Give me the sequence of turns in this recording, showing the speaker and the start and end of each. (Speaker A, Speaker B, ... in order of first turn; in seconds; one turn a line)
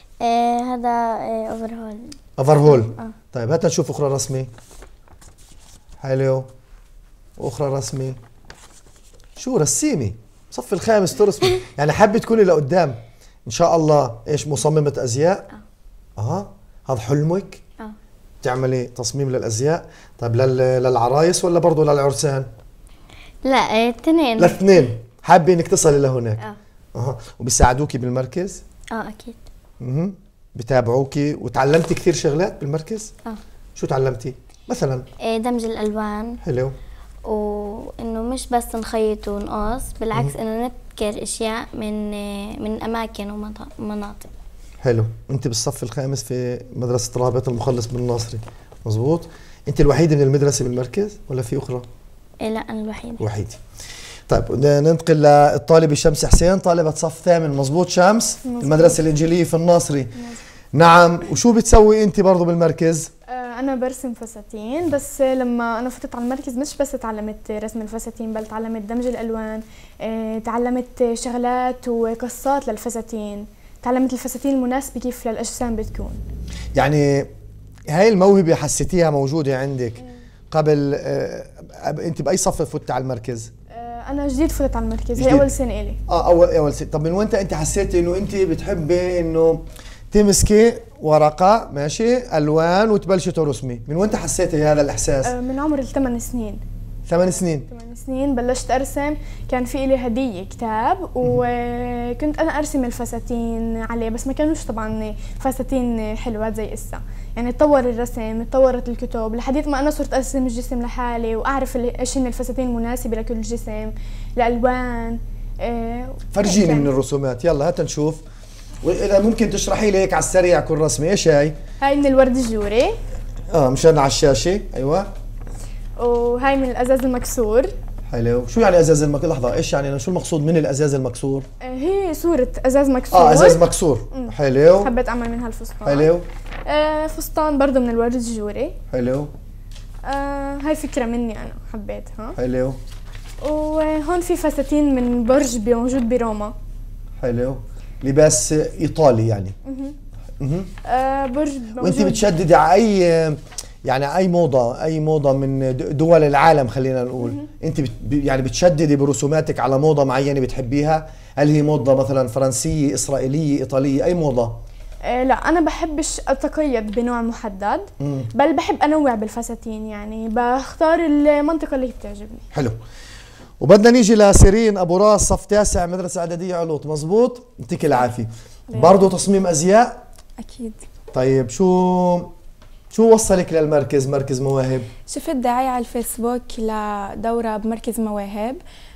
Speaker A: 0.2-2.1
Speaker B: 2.4-4.5
Speaker B: 6.0-6.5
Speaker B: 7.4-8.2
Speaker B: 9.4-15.4
Speaker B: 16.2-17.6
Speaker B: 18.4-22.5
Speaker A: 23.4-24.6
Speaker B: 24.4-26.4
Speaker B: 26.9-28.6
Speaker A: 28.9-29.4
Speaker B: 29.8-33.1
Speaker B: 33.8-35.0
Speaker A: 35.2-36.4
Speaker B: 36.4-36.7
Speaker A: 37.2-44.3
Speaker B: 44.8-51.9
Speaker A: 52.4-53.2
Speaker B: 53.2-53.6
Speaker B: 54.3-60.1
Speaker C: 58.4-59.0
Speaker B: 60.7-63.1
Speaker C: 63.3-76.2
Speaker B: 76.7-77.3
Speaker B: 77.9-83.5
Speaker C: 83.7-86.0
Speaker B: 85.2-85.5
Speaker B: 86.1-95.3
Speaker C: 95.2-96.6
Speaker B: 97.1-97.7
Speaker C: 97.3-116.9
Speaker B: 116.3-118.2
Speaker B: 118.8-121.6
Speaker C: 121.8-122.9
Speaker B: 123.5-125.1
Speaker C: 126.0-127.7
Speaker B: 128.1-131.4
Speaker C: 131.6-136.1
Speaker B: 133.1-134.9
Speaker B: 135.8-136.3
Speaker C: 136.7-138.8
Speaker B: 138.9-139.3
Speaker C: 140.0-142.4
Speaker B: 142.3-142.8
Speaker C: 143.4-146.5
Speaker B: 147.2-149.6
Speaker C: 149.7-149.9
Speaker B: 150.4-150.7
Speaker C: 150.8-152.3
Speaker B: 151.8-164.6
Speaker C: 157.2-157.5
Speaker C: 165.1-172.4
Speaker B: 168.0-168.3
Speaker B: 173.6-180.0
Speaker D: 180.4-180.8
Speaker B: 181.1-182.3
Speaker B: 182.9-184.9
Speaker D: 185.1-188.6